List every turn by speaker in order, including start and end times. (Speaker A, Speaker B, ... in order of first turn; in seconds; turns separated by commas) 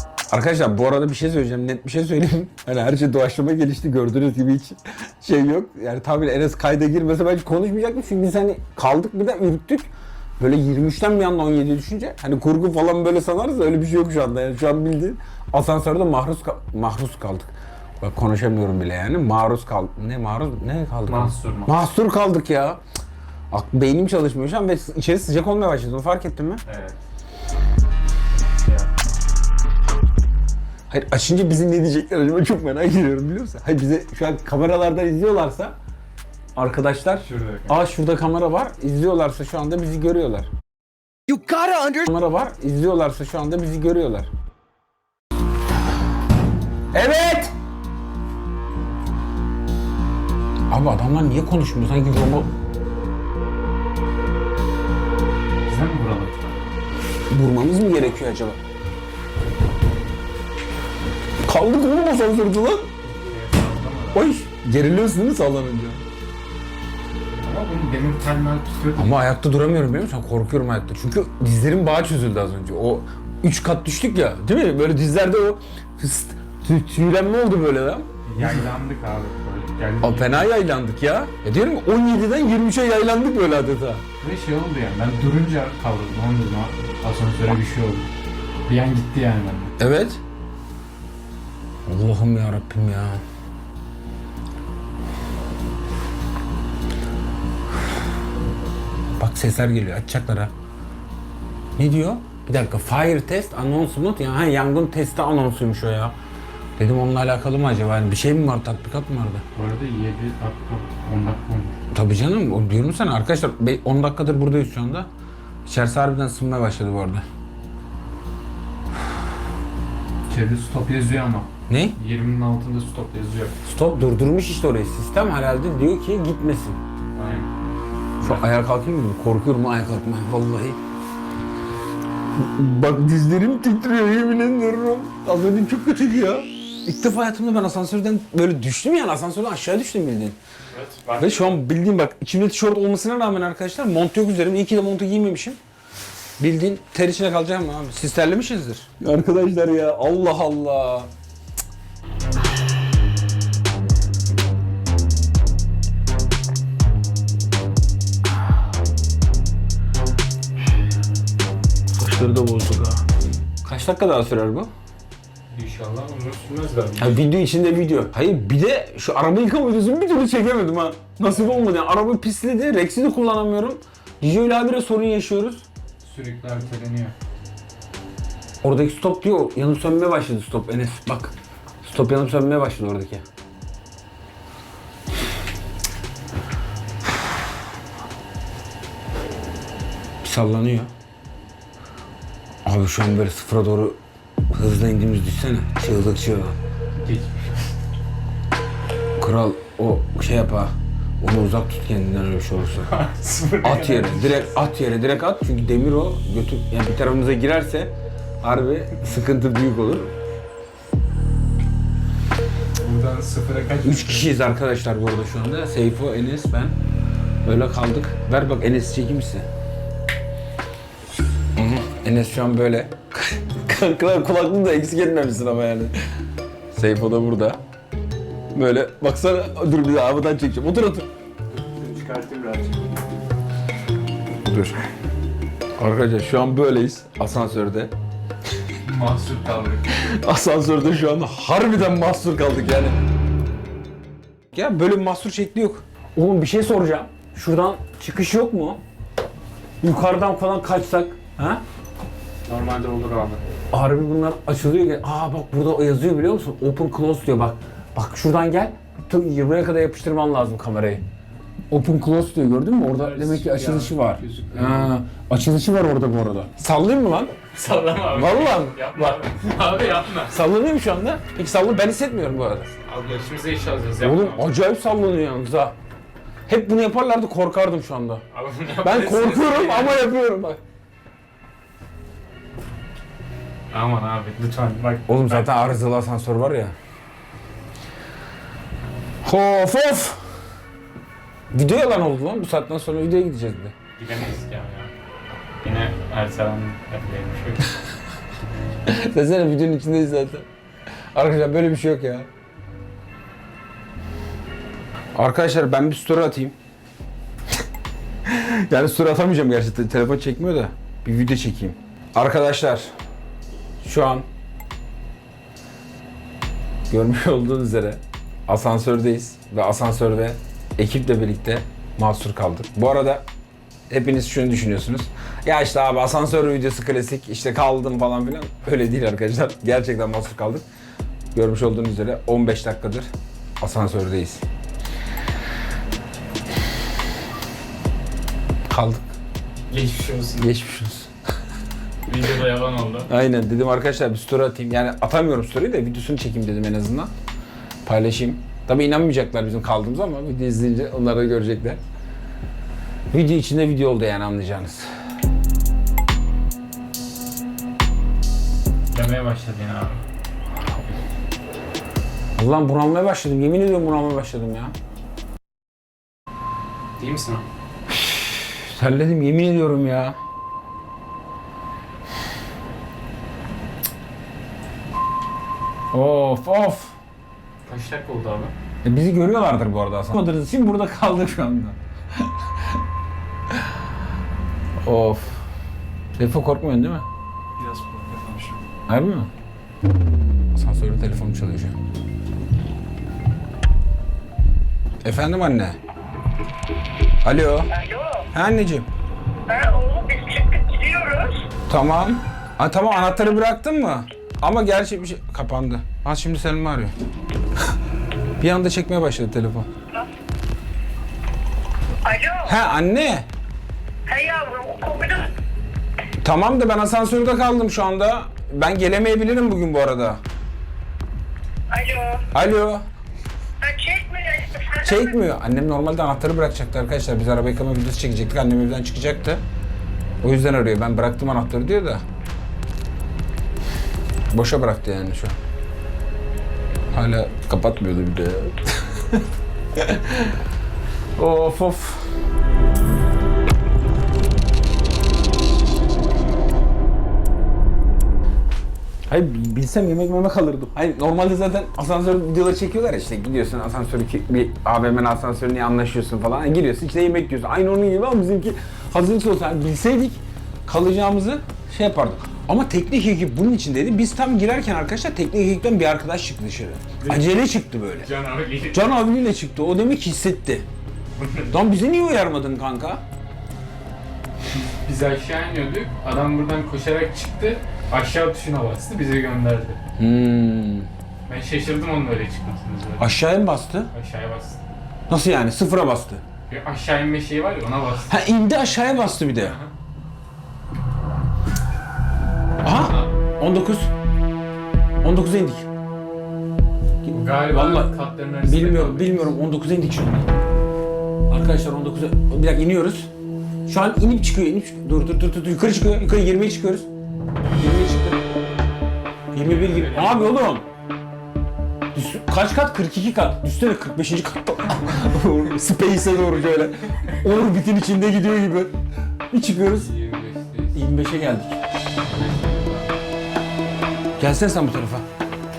Speaker A: 0.3-22.8, Speaker B: 21.1-21.8, Speaker A: 23.5-26.6, Speaker B: 26.7-27.0, Speaker B: 28.6-28.9, Speaker A: 30.9-35.8, Speaker A: 36.5-40.5, Speaker B: 37.2-37.8, Speaker A: 41.7-44.3, Speaker A: 46.9-47.5, Speaker A: 50.7-52.5, Speaker B: 55.7-56.5, Speaker A: 57.3-58.6, Speaker A: 61.5-62.9, Speaker B: 63.0-64.3, Speaker A: 64.1-66.0, Speaker B: 67.3-69.2, Speaker A: 69.0-78.7, Speaker B: 78.2-80.5, Speaker A: 80.0-84.0, Speaker B: 84.2-88.1, Speaker B: 88.7-89.7, Speaker A: 89.8-90.2, Speaker A: 91.9-93.2, Speaker A: 99.2-100.5, Speaker A: 101.8-106.2, Speaker A: 106.8-109.4, Speaker B: 109.5-111.8, Speaker A: 111.9-115.1, Speaker A: 115.7-117.2, Speaker B: 120.3-123.5, Speaker A: 121.7-122.0, Speaker A: 123.7-126.8, Speaker B: 127.2-127.5, Speaker B: 128.2-128.5, Speaker A: 128.2-130.8, Speaker A: 132.3-140.4, Speaker B: 140.7-141.6, Speaker A: 141.2-145.6, Speaker A: 146.4-151.1, Speaker A: 161.9-163.0, Speaker A: 163.6-164.7, Speaker B: 165.5-167.2, Speaker A: 167.0-175.7, Speaker B: 171.3-171.7, Speaker B: 176.0-177.2, Speaker A: 178.6-183.2, Speaker A: 190.2-190.9, Speaker A: 192.7-194.0, Speaker A: 194.5-196.6, Speaker B: 197.0-197.7, Speaker A: 199.2-202.9, Speaker B: 202.8-204.6, Speaker A: 203.6-210.1, Speaker B: 212.8-214.4, Speaker A: 213.8-216.8, Speaker A: 217.4-219.5, Speaker A: 221.6-225.9, Speaker A: 226.7-227.6, Speaker A: 228.5-231.1, Speaker B: 231.5-233.1, Speaker A: 234.4-234.8, Speaker A: 235.8-237.9, Speaker B: 238.8-239.9, Speaker A: 239.9-243.0, Speaker A: 244.5-248.8, Speaker A: 249.8-251.6, Speaker B: 252.5-253.4, Speaker A: 253.7-261.0, Speaker A: 261.7-267.4, Speaker B: 262.9-264.9, Speaker B: 267.5-270.5, Speaker A: 268.0-269.2, Speaker A: 270.3-272.7, Speaker B: 272.9-274.5, Speaker A: 274.0-275.8, Speaker A: 276.5-278.2, Speaker B: 278.3-280.1, Speaker A: 278.8-280.6, Speaker B: 283.7-285.7, Speaker A: 285.1-286.8, Speaker A: 289.2-290.2, Speaker A: 291.5-293.7, Speaker B: 294.0-294.9, Speaker B: 295.6-297.8, Speaker A: 298.9-300.5, Speaker A: 301.1-302.3, Speaker A: 305.1-306.6, Speaker A: 308.3-312.9, Speaker A: 313.8-314.2, Speaker A: 316.9-323.2, Speaker A: 323.9-330.7, Speaker A: 331.3-333.1, Speaker A: 333.6-334.4, Speaker A: 338.7-339.1, Speaker B: 339.7-340.5, Speaker A: 340.4-341.1, Speaker B: 342.1-343.1, Speaker A: 343.1-347.1, Speaker A: 347.9-351.8, Speaker A: 353.1-354.9, Speaker B: 358.9-360.0, Speaker A: 362.4-364.7, Speaker B: 367.0-367.5, Speaker A: 367.9-370.2, Speaker A: 375.9-377.0, Speaker B: 377.7-378.5, Speaker A: 378.8-381.8, Speaker A: 384.8-385.4, Speaker A: 386.2-387.1, Speaker B: 387.6-388.6, Speaker A: 388.9-389.3, Speaker A: 390.6-391.8, Speaker A: 395.0-395.8, Speaker A: 397.2-397.8, Speaker C: 397.7-398.3, Speaker A: 398.3-398.9, Speaker C: 399.5-401.4, Speaker A: 401.7-406.9, Speaker A: 408.4-409.7, Speaker C: 412.0-412.5, Speaker A: 412.4-413.3, Speaker C: 414.1-415.3, Speaker A: 416.2-420.2, Speaker C: 421.7-422.3, Speaker A: 422.3-422.9, Speaker C: 423.6-424.8, Speaker A: 424.8-429.4, Speaker A: 430.2-432.0, Speaker A: 434.3-435.4, Speaker A: 436.9-439.2, Speaker A: 439.8-440.4, Speaker A: 441.2-442.1, Speaker A: 449.1-468.1, Speaker B: 467.0-468.9, Speaker A: 468.7-470.7, Speaker B: 471.2-471.6, Speaker A: 471.5-473.0, Speaker B: 474.5-479.8, Speaker A: 480.0-480.9, Speaker B: 481.3-483.1, Speaker A: 483.0-483.9, Speaker B: 483.9-484.6, Speaker A: 485.1-486.2, Speaker B: 486.5-488.1, Speaker A: 488.1-489.6, Speaker B: 489.4-489.7, Speaker A: 492.6-493.9, Speaker B: 492.7-493.1, Speaker A: 495.0-495.7, Speaker A: 497.1-500.3, Speaker B: 497.1-499.3, Speaker A: 501.3-503.1, Speaker A: 503.7-506.9, Speaker A: 507.6-508.2, Speaker B: 509.3-510.4, Speaker A: 509.3-510.7, Speaker A: 511.9-518.7, Speaker A: 519.3-519.9, Speaker B: 519.7-520.9, Speaker A: 520.7-521.6, Speaker B: 522.0-522.9, Speaker A: 524.2-525.1